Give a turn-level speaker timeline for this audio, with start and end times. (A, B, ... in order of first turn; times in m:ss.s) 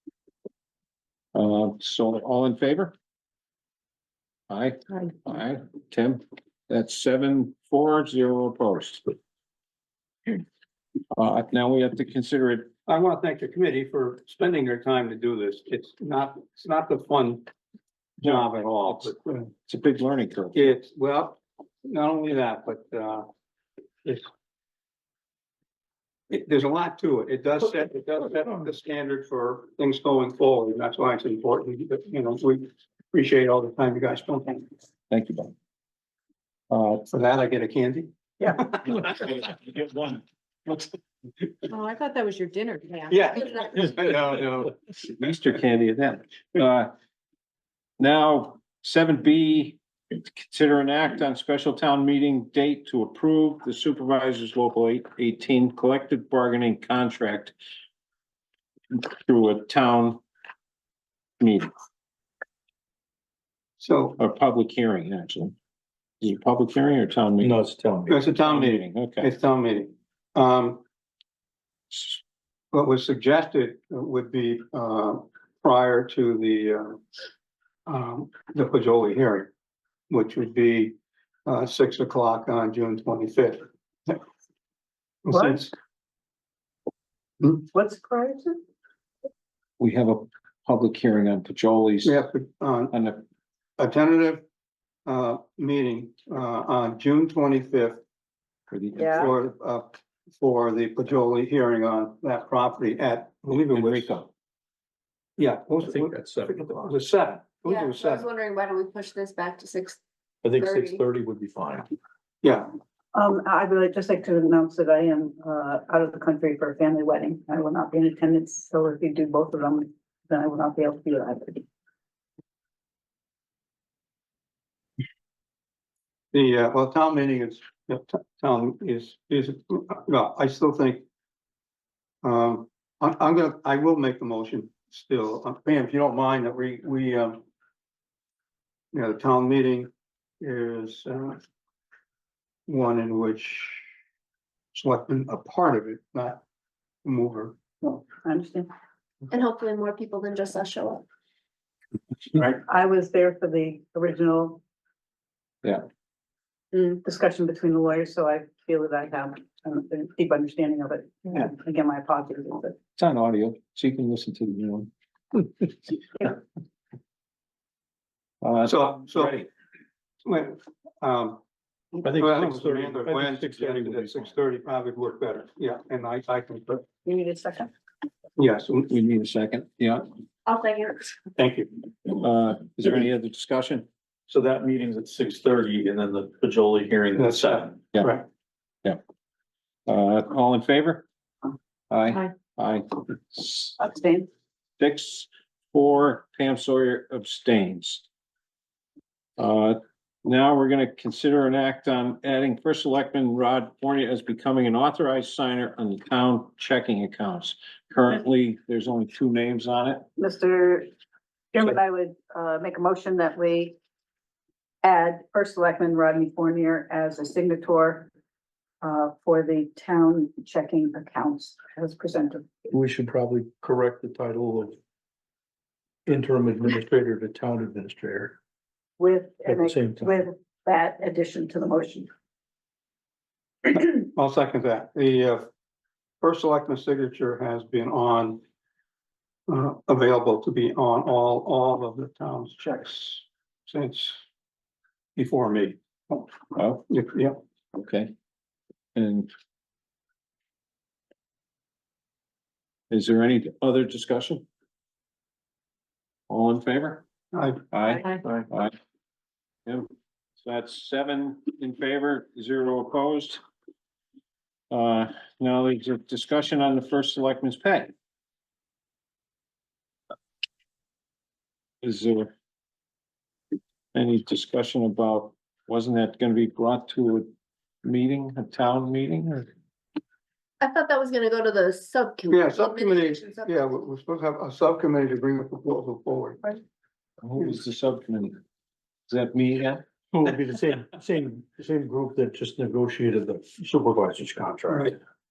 0:01.3-0:02.9 A
0:04.5-0:09.1 A
0:11.1-0:12.7 A
0:12.8-0:17.5 B
0:18.2-0:19.5 B
0:18.2-0:20.8 A
0:20.5-0:23.3 B
0:26.3-0:34.7 B
0:35.1-0:35.5 A
0:36.7-0:37.0 A
0:37.1-0:39.4 B
0:39.6-0:40.1 A
0:41.7-0:43.9 C
0:43.1-0:44.6 B
0:44.6-0:46.9 A
0:48.0-0:57.5 A
0:58.9-1:00.2 A
1:01.4-1:01.7 A
1:03.8-1:04.2 B
1:04.2-1:05.5 A
1:06.2-1:07.6 A
1:07.4-1:08.3 D
1:08.1-1:10.8 B
1:08.3-1:09.3 A
1:12.7-1:17.0 B
1:17.9-1:19.5 B
1:20.1-1:24.2 B
1:25.2-1:25.7 B
1:25.3-1:25.6 E
1:27.7-1:28.6 E
1:29.8-1:32.2 A
1:32.0-1:33.0 B
1:32.9-1:33.2 A
1:33.8-1:34.4 B
1:35.0-1:38.0 B
1:38.7-1:39.5 A
1:39.0-1:39.3 E
1:39.0-1:44.3 B
1:43.7-1:44.2 A
1:45.4-1:48.3 B
1:45.8-1:47.0 D
1:47.6-1:50.0 F
1:50.4-1:51.9 D
1:50.5-1:51.0 F
1:52.4-1:52.7 B
1:53.1-2:01.6 E
2:06.3-2:11.0 B
2:12.2-2:17.4 B
2:18.9-2:19.9 B
2:20.4-2:21.4 B
2:22.7-2:23.8 B
2:24.7-2:26.4 B
2:27.0-2:27.6 B
2:27.8-2:28.7 E
2:29.3-2:31.0 F
2:32.4-2:34.6 E
2:36.7-2:37.0 F
2:37.0-2:42.8 E
2:43.0-2:44.9 A
2:48.4-2:49.5 A
2:48.6-2:49.4 B
2:50.2-2:51.4 B
2:52.0-2:54.3 D
2:52.1-2:56.8 B
2:57.0-2:57.7 E
2:58.4-2:58.9 B
2:58.9-3:00.1 A
3:00.4-3:01.2 F
3:01.3-3:01.8 B
3:02.0-3:03.9 A
3:04.3-3:07.9 D
3:07.2-3:07.4 B
3:08.0-3:08.2 B
3:09.9-3:11.0 A
3:11.9-3:13.8 A
3:13.8-3:14.3 E
3:14.8-3:18.0 A
3:19.4-3:30.0 A
3:30.2-3:30.9 E
3:31.5-3:33.8 E
3:34.8-3:38.1 E
3:38.8-3:42.5 E
3:42.7-3:44.8 D
3:46.0-3:48.4 D
3:49.0-3:52.1 E
3:49.4-3:50.2 D
3:53.7-3:55.5 B
3:56.2-3:58.4 B
3:59.5-4:04.2 B
4:05.2-4:06.3 B
4:06.5-4:06.8 A
4:06.9-4:07.4 B
4:07.7-4:08.1 A
4:08.9-4:09.3 A
4:12.9-4:14.4 A
4:16.3-4:17.0 A
4:17.3-4:17.6 B
4:17.7-4:18.7 A
4:20.4-4:23.4 A
4:24.7-4:27.9 A
4:31.8-4:32.3 A
4:33.9-4:37.3 A
4:37.8-4:39.5 A
4:40.6-4:43.6 F
4:42.3-4:46.6 B
4:47.2-4:48.4 A
4:49.1-4:49.8 A
4:50.1-4:54.9 D
4:54.7-4:55.0 B